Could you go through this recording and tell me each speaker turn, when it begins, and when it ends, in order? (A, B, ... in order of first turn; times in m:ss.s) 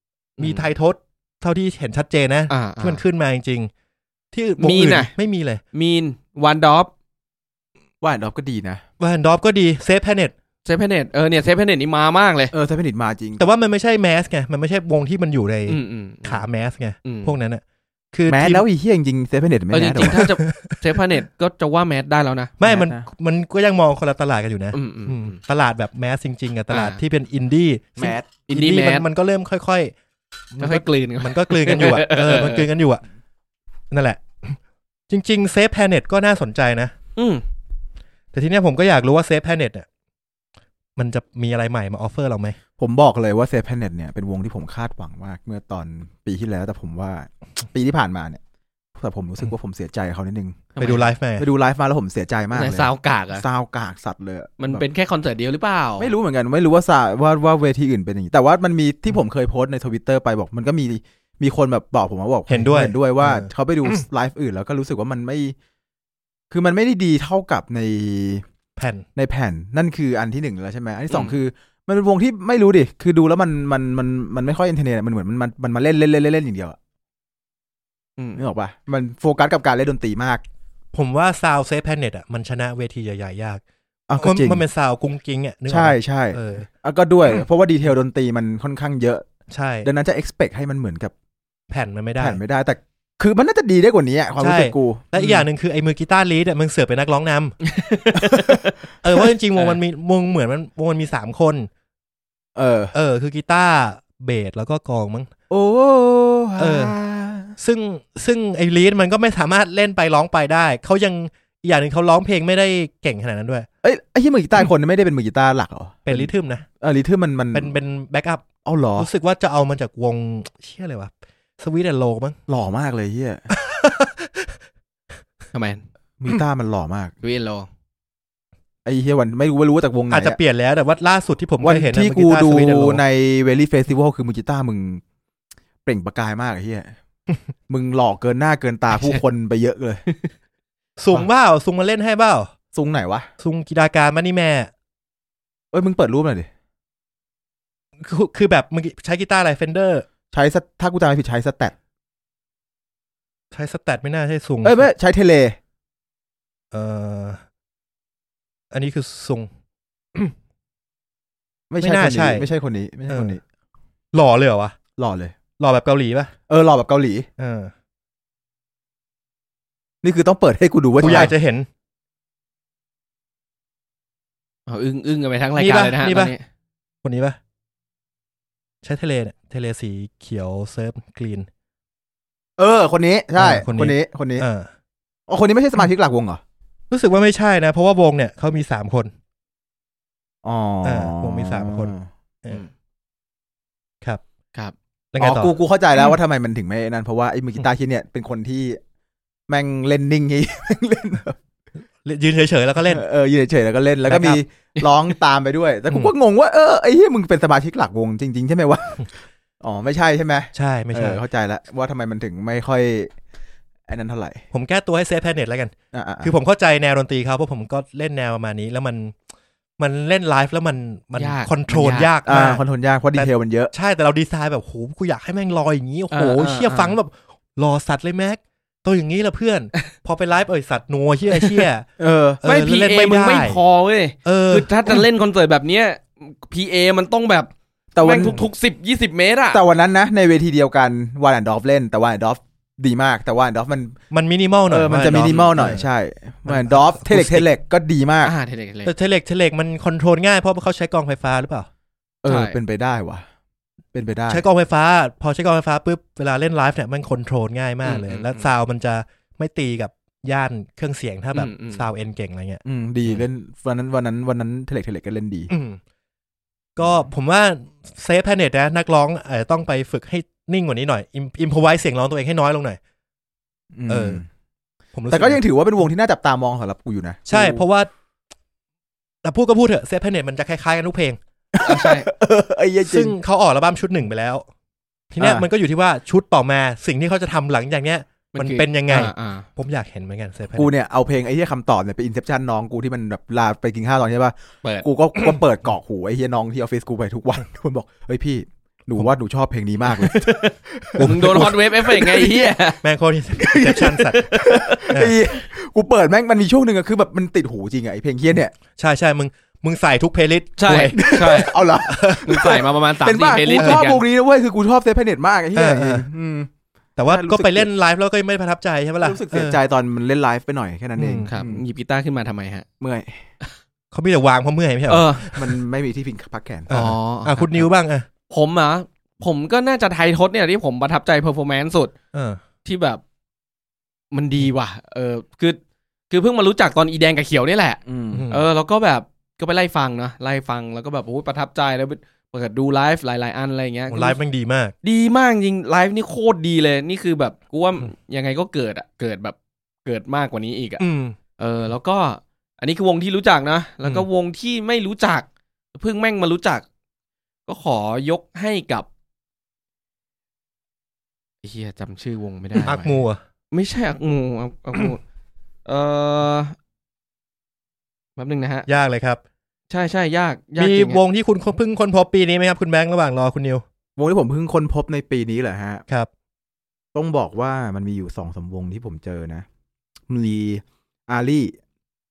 0:00.4-0:00.7 A
0:00.4-0:03.7 B
0:02.5-0:03.0 A
0:04.3-0:05.6 B
0:04.6-0:05.1 A
0:05.7-0:06.9 A
0:08.0-0:08.8 C
0:09.0-0:10.3 B
0:10.6-0:12.5 A
0:12.5-0:13.5 C
0:13.4-0:17.6 B
0:15.7-0:16.5 A
0:17.0-0:17.3 A
0:18.1-0:18.6 B
0:18.3-0:20.2 C
0:19.7-0:22.5 A
0:20.2-0:20.8 B
0:22.6-0:29.9 B
0:22.6-0:23.1 C
0:24.7-0:25.4 A
0:26.7-0:27.0 A
0:28.0-0:28.3 C
0:28.5-0:29.1 A
0:30.5-0:33.0 B
0:30.6-0:32.7 A
0:33.9-0:36.9 B
0:37.2-0:37.4 A
0:38.3-0:39.9 B
0:41.0-0:42.6 B
0:42.8-0:48.4 C
0:49.0-0:50.7 C
0:50.8-0:51.1 A
0:50.8-0:51.5 B
0:51.4-0:54.8 C
0:52.5-0:53.4 A
0:54.6-0:56.1 A
0:56.0-1:05.6 C
1:02.5-1:04.0 B
1:06.5-1:08.4 C
1:08.8-1:09.1 B
1:09.2-1:16.8 C
1:11.1-1:11.4 A
1:18.4-1:20.4 C
1:20.9-1:23.6 B
1:24.1-1:24.6 C
1:24.2-1:26.7 B
1:25.7-1:29.3 C
1:29.5-1:29.9 B
1:29.8-1:31.1 C
1:31.7-1:32.4 B
1:32.2-1:35.0 C
1:34.4-1:37.6 B
1:37.6-1:38.8 A
1:39.0-1:41.7 B
1:42.6-1:42.9 C
1:42.9-1:45.3 B
1:45.5-1:47.6 C
1:46.6-1:47.0 B
1:47.6-1:53.7 B
1:53.8-1:56.3 C
1:56.1-1:56.7 B
1:56.8-1:57.7 C
1:57.5-2:02.4 B
1:58.6-1:59.1 C
2:02.5-2:03.5 C
2:03.5-2:04.6 B
2:05.5-2:05.8 A
2:06.2-2:07.1 C
2:07.2-2:07.7 A
2:08.8-2:10.4 C
2:10.1-2:13.0 B
2:11.6-2:15.0 C
2:15.8-2:16.9 C
2:17.7-2:20.1 C
2:21.0-2:22.5 B
2:22.7-2:23.3 C
2:23.4-2:24.7 B
2:25.7-2:26.5 C
2:28.0-2:30.1 B
2:30.3-2:31.7 C
2:33.5-2:34.9 B
2:34.6-2:35.6 C
2:36.7-2:37.4 B
2:38.7-2:39.5 B
2:41.7-2:43.4 C
2:41.8-2:42.5 B
2:43.1-2:43.4 B
2:44.1-2:44.8 B
2:45.0-2:45.4 C
2:45.6-2:46.3 B
2:46.5-2:47.3 C
2:47.4-2:47.7 B
2:50.0-2:51.3 C
2:51.0-2:51.7 B
2:51.0-2:51.3 A
2:54.7-2:56.4 A
2:55.6-2:56.3 B
2:57.0-2:57.4 B
2:58.8-3:01.5 B
3:02.6-3:04.5 C
3:03.4-3:04.7 B
3:05.3-3:06.4 C
3:06.9-3:09.1 B
3:10.4-3:12.1 C
3:10.8-3:11.9 B
3:15.1-3:15.5 B
3:15.2-3:18.8 C
3:19.5-3:21.4 C
3:22.0-3:23.0 B
3:22.9-3:33.1 C
3:24.1-3:24.4 B
3:30.6-3:31.2 B
3:33.9-3:34.4 C
3:34.5-3:39.2 B
3:35.9-3:36.3 C
3:39.8-3:42.6 B
3:41.2-3:42.1 A
3:42.3-3:43.7 C
3:43.2-3:51.9 B
3:46.1-3:47.0 A
3:52.0-3:52.4 C
3:52.4-3:53.6 B
3:52.4-3:59.6 A
3:54.2-3:55.0 B
3:57.9-3:58.4 C
3:59.5-4:04.0 C
4:04.1-4:05.9 B
4:04.7-4:08.3 C
4:05.2-4:05.6 A
4:06.5-4:07.5 B
4:08.2-4:08.9 A
4:08.9-4:11.7 B
4:12.2-4:13.2 C
4:12.3-4:12.6 A
4:13.9-4:14.4 C
4:14.3-4:22.6 B
4:17.8-4:18.5 A
4:21.3-4:21.8 A
4:22.6-4:25.5 C
4:25.5-4:25.8 B
4:26.8-4:32.8 B
4:33.8-4:34.3 C
4:33.9-4:34.2 B
4:34.9-4:35.4 B
4:35.1-4:37.6 C
4:37.3-4:37.9 B
4:39.2-4:41.2 B
4:41.5-4:43.1 C
4:41.6-4:42.1 A
4:42.8-4:44.5 B
4:45.1-4:50.7 B
4:45.2-4:45.5 C
4:48.3-4:49.5 A
4:50.6-5:02.4 C
5:00.0-5:02.8 A
5:01.0-5:01.6 B
5:02.8-5:04.3 B
5:03.4-5:08.5 C
5:04.1-5:04.9 A
5:04.9-5:05.2 B
5:08.8-5:12.5 B
5:10.6-5:11.6 A
5:10.9-5:16.5 C
5:12.2-5:14.0 A
5:13.6-5:13.8 B
5:15.6-5:16.1 B
5:17.0-5:19.6 B
5:17.1-5:17.7 C
5:19.0-5:21.6 C
5:21.0-5:21.3 B
5:21.3-5:22.6 A
5:22.8-5:23.2 C
5:23.9-5:25.4 B
5:24.9-5:25.4 A
5:25.3-5:26.7 C
5:26.7-5:28.1 B
5:26.7-5:27.7 A
5:28.3-5:31.9 A
5:32.1-5:32.4 B
5:32.6-5:33.0 A
5:34.1-5:35.6 A
5:36.1-5:44.2 A
5:37.9-5:38.3 C
5:38.1-5:38.5 B
5:43.9-5:44.7 B
5:44.8-5:50.8 A
5:50.8-5:51.2 B
5:51.4-5:56.6 A
5:57.5-5:58.9 A
6:01.4-6:05.0 A
6:02.6-6:03.2 B
6:05.7-6:06.6 A
6:08.2-6:08.7 A
6:08.7-6:09.2 B
6:09.7-6:11.0 A
6:10.6-6:13.6 B
6:14.0-6:15.8 C
6:17.0-6:19.5 C
6:20.1-6:21.6 C